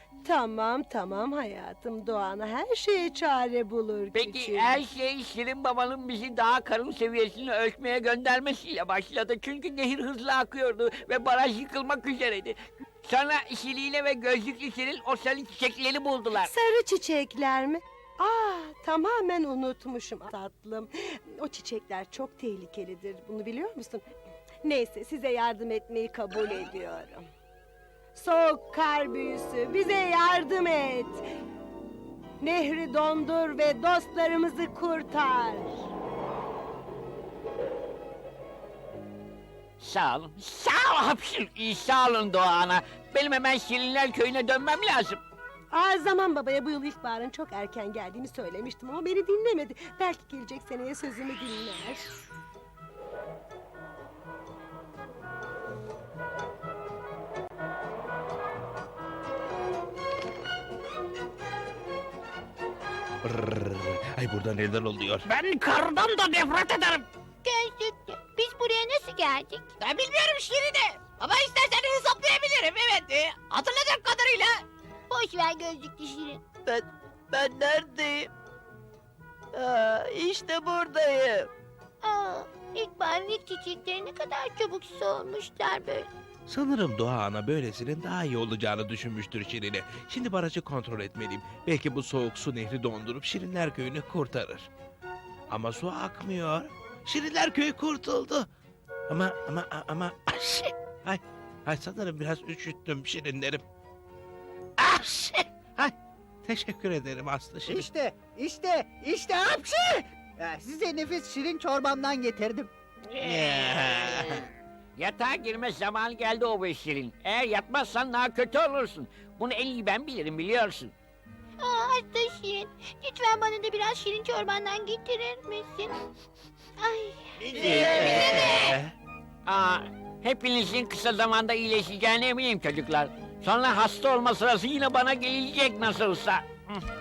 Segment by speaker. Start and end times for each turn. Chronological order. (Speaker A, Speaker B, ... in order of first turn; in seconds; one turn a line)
Speaker A: 0.2-4.8
Speaker B: 4.1-16.5
Speaker A: 16.4-24.1
Speaker A: 24.6-27.3
Speaker A: 28.1-31.3
Speaker A: 32.4-35.9
Speaker B: 39.8-45.2
Speaker A: 45.7-52.1
Speaker C: 63.2-65.2
Speaker B: 65.3-67.0
Speaker D: 65.9-66.3
Speaker E: 67.4-69.7
Speaker D: 69.8-74.6
Speaker E: 75.1-76.4
Speaker F: 76.7-78.3
Speaker F: 79.5-81.5
Speaker E: 82.0-86.1
Speaker C: 86.5-94.7
Speaker C: 95.5-98.5
Speaker C: 99.1-103.6
Speaker C: 104.8-105.8
Speaker C: 106.5-107.9
Speaker G: 107.7-112.7
Speaker B: 113.1-120.9
Speaker C: 113.2-114.4
Speaker E: 121.6-125.9
Speaker E: 126.8-127.6
Speaker F: 127.6-128.3
Speaker C: 127.6-128.9
Speaker B: 127.8-128.7
Speaker E: 128.2-128.6
Speaker B: 129.4-136.8